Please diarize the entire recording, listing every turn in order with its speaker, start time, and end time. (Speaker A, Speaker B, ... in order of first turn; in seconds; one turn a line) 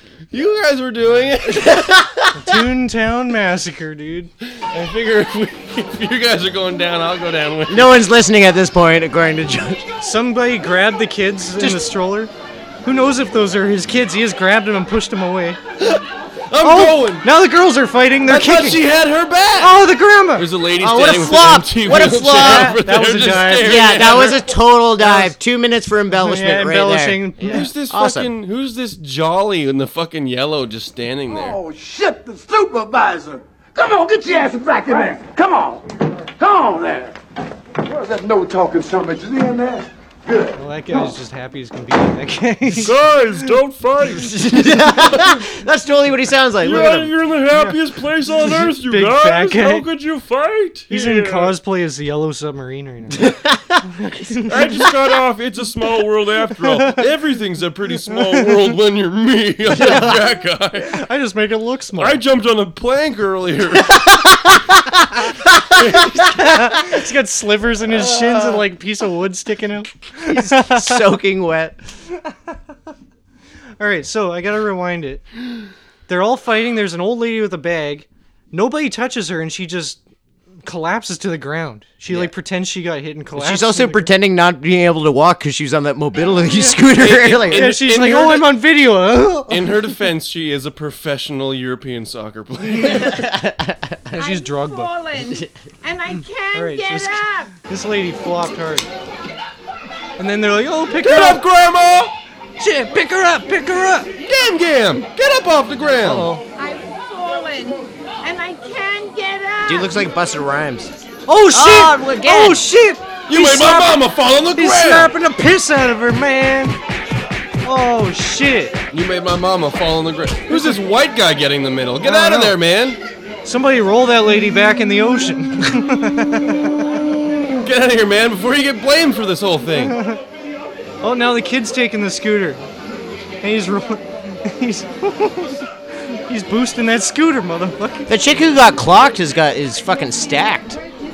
Speaker A: 0.3-2.0
Speaker B: 1.5-2.3
Speaker C: 2.3-4.3
Speaker A: 4.4-8.0
Speaker B: 7.7-9.9
Speaker C: 10.0-12.3
Speaker C: 12.8-15.6
Speaker A: 15.8-17.3
Speaker C: 16.6-18.9
Speaker A: 18.3-24.5
Speaker C: 19.6-20.5
Speaker B: 20.8-28.3
Speaker C: 22.3-23.8
Speaker C: 25.0-25.4
Speaker C: 26.1-27.7
Speaker A: 27.4-31.6
Speaker D: 31.3-37.1
Speaker D: 37.9-40.5
Speaker C: 40.5-43.0
Speaker A: 42.7-45.4
Speaker B: 44.1-47.2
Speaker A: 46.6-51.5
Speaker C: 47.5-47.8
Speaker C: 48.4-49.9
Speaker C: 50.9-53.3
Speaker B: 53.2-53.8
Speaker C: 54.0-54.8
Speaker A: 54.5-61.0
Speaker C: 56.6-57.0
Speaker C: 58.1-58.6
Speaker C: 59.8-60.2
Speaker C: 60.8-62.2
Speaker A: 62.0-64.0
Speaker B: 63.9-65.8
Speaker A: 65.8-66.4
Speaker C: 66.4-71.0
Speaker B: 67.9-68.6
Speaker B: 70.3-71.8
Speaker C: 73.8-75.3
Speaker C: 76.1-80.0
Speaker C: 80.6-84.1
Speaker B: 83.4-87.8
Speaker A: 86.9-88.6
Speaker C: 87.5-89.8
Speaker A: 89.5-93.2
Speaker B: 92.9-94.0
Speaker C: 94.1-94.9
Speaker E: 94.2-97.5
Speaker C: 96.5-98.9
Speaker C: 100.2-101.4
Speaker A: 101.0-102.2
Speaker C: 102.6-104.1
Speaker A: 104.2-106.3
Speaker C: 106.0-106.4
Speaker E: 106.6-110.1
Speaker B: 109.6-110.9
Speaker C: 111.3-116.8
Speaker B: 111.5-112.7
Speaker A: 113.3-115.1
Speaker C: 117.6-118.8
Speaker A: 118.9-123.0
Speaker C: 120.5-120.8
Speaker C: 122.0-122.6
Speaker C: 123.5-126.8
Speaker A: 126.9-130.0
Speaker C: 129.8-130.2
Speaker C: 131.0-132.6
Speaker C: 133.4-138.1
Speaker B: 138.1-140.8